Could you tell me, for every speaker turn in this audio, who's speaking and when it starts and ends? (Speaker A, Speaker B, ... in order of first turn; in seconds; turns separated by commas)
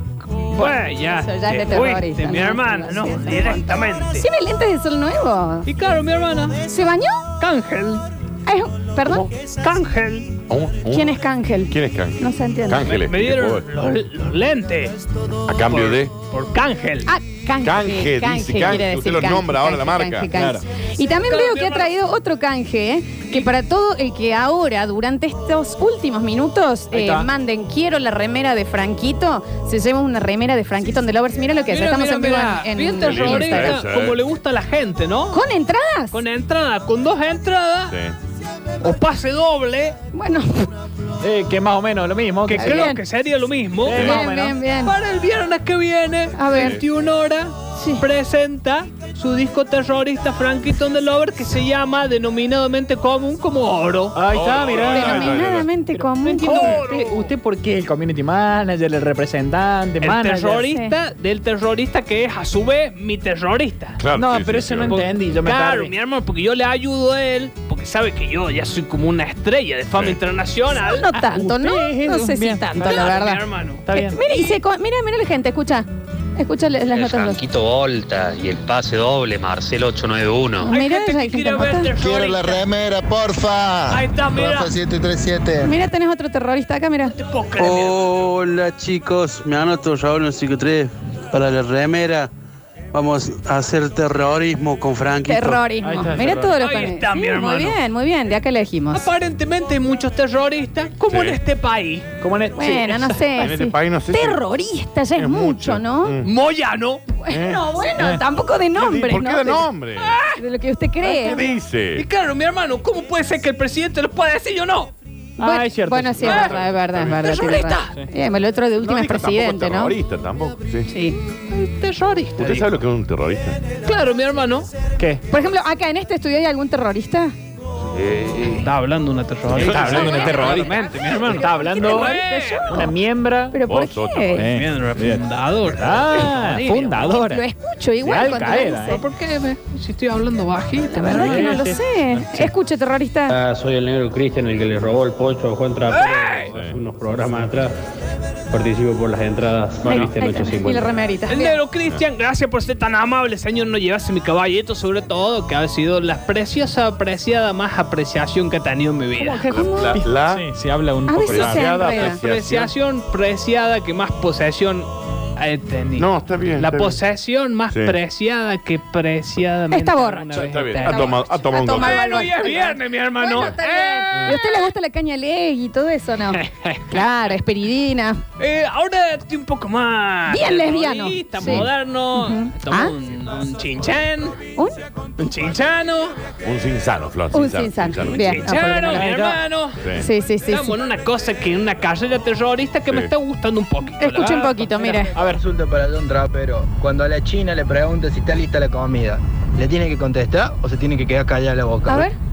Speaker A: 0.5-4.3, Speaker B: 0.5-5.7, Speaker A: 5.7-6.6, Speaker B: 6.7-7.2, Speaker A: 7.4-8.0, Speaker B: 8.5-9.3, Speaker A: 9.6-10.3, Speaker C: 10.5-13.7, Speaker B: 10.9-12.9, Speaker A: 12.9-15.0, Speaker C: 15.5-16.1, Speaker A: 15.7-17.1, Speaker B: 17.1-33.8, Speaker C: 17.6-20.3, Speaker D: 20.3-20.6, Speaker A: 21.3-21.9, Speaker D: 26.9-27.3, Speaker A: 31.6-35.4, Speaker C: 33.0-34.2, Speaker B: 35.3-36.1, Speaker A: 36.1-38.0, Speaker C: 37.9-38.2, Speaker A: 38.8-40.0, Speaker B: 40.1-40.7, Speaker D: 41.2-42.9, Speaker A: 42.5-44.3, Speaker B: 42.6-43.0, Speaker D: 43.8-44.6, Speaker B: 43.9-44.9, Speaker A: 44.8-54.2, Speaker B: 46.4-46.8, Speaker C: 46.5-46.8, Speaker B: 47.8-48.0, Speaker D: 54.1-55.4, Speaker C: 54.3-55.7, Speaker B: 54.8-56.8, Speaker D: 56.0-60.6, Speaker A: 56.2-57.3, Speaker A: 60.0-64.0, Speaker B: 60.7-61.0, Speaker C: 64.0-65.0, Speaker D: 64.2-65.9, Speaker A: 64.8-71.2, Speaker C: 70.0-70.2, Speaker B: 70.8-73.4, Speaker D: 71.3-73.2, Speaker A: 72.7-74.6, Speaker D: 73.8-74.2, Speaker B: 73.9-77.4, Speaker E: 76.9-80.7, Speaker B: 80.6-81.9, Speaker A: 80.6-82.7, Speaker F: 82.0-85.8, Speaker A: 83.9-84.8, Speaker B: 85.6-87.2, Speaker A: 87.1-88.2, Speaker G: 87.6-92.3, Speaker G: 92.9-95.7, Speaker B: 95.2-99.1, Speaker D: 95.8-96.6, Speaker A: 96.6-97.8, Speaker A: 98.9-102.1, Speaker C: 101.1-101.4, Speaker D: 102.2-103.2, Speaker B: 102.6-106.2, Speaker C: 103.4-104.4, Speaker C: 105.2-106.3, Speaker A: 106.2-107.0, Speaker B: 107.2-109.7, Speaker C: 107.3-107.7, Speaker C: 108.8-110.2, Speaker A: 110.0-110.4, Speaker B: 110.4-111.4, Speaker A: 111.2-114.9, Speaker C: 111.2-112.1, Speaker D: 115.4-116.6, Speaker B: 115.4-120.0, Speaker A: 116.2-116.5, Speaker C: 116.3-117.4, Speaker A: 117.1-118.0, Speaker C: 118.8-120.9, Speaker B: 120.9-121.2, Speaker A: 121.5-122.7, Speaker C: 122.4-123.6, Speaker A: 123.8-124.7, Speaker D: 125.0-125.2, Speaker B: 125.3-127.3, Speaker C: 128.1-128.4, Speaker A: 128.5-132.7, Speaker C: 129.5-130.8, Speaker D: 129.5-133.6, Speaker B: 129.9-130.6, Speaker B: 131.7-132.9, Speaker B: 133.5-134.5, Speaker C: 133.7-134.5, Speaker D: 134.4-137.4, Speaker A: 134.5-137.1, Speaker B: 137.1-139.0, Speaker D: 138.0-139.0, Speaker A: 138.9-141.6, Speaker B: 140.9-143.4, Speaker D: 141.1-142.5, Speaker H: 143.3-147.7, Speaker A: 145.9-146.6, Speaker C: 146.5-146.8, Speaker H: 148.5-150.9, Speaker B: 149.8-151.6, Speaker A: 149.9-150.1, Speaker A: 151.3-159.5, Speaker B: 159.2-160.0, Speaker D: 159.5-161.9, Speaker C: 159.5-160.5, Speaker B: 161.1-162.2, Speaker C: 161.2-162.7, Speaker A: 161.9-174.7, Speaker C: 166.0-167.0, Speaker C: 167.7-168.0, Speaker B: 169.7-178.2, Speaker C: 170.3-172.3, Speaker A: 176.4-177.0, Speaker A: 178.4-184.4, Speaker B: 180.3-182.9, Speaker C: 181.4-181.7, Speaker A: 185.2-186.2, Speaker C: 186.4-188.6, Speaker B: 187.3-189.1, Speaker A: 188.1-189.9, Speaker D: 188.8-189.4, Speaker C: 189.8-190.1, Speaker B: 189.9-190.8, Speaker A: 190.5-194.5, Speaker C: 192.9-193.1, Speaker B: 194.0-195.2, Speaker D: 195.1-195.4, Speaker I: 195.2-202.1, Speaker B: 201.9-202.2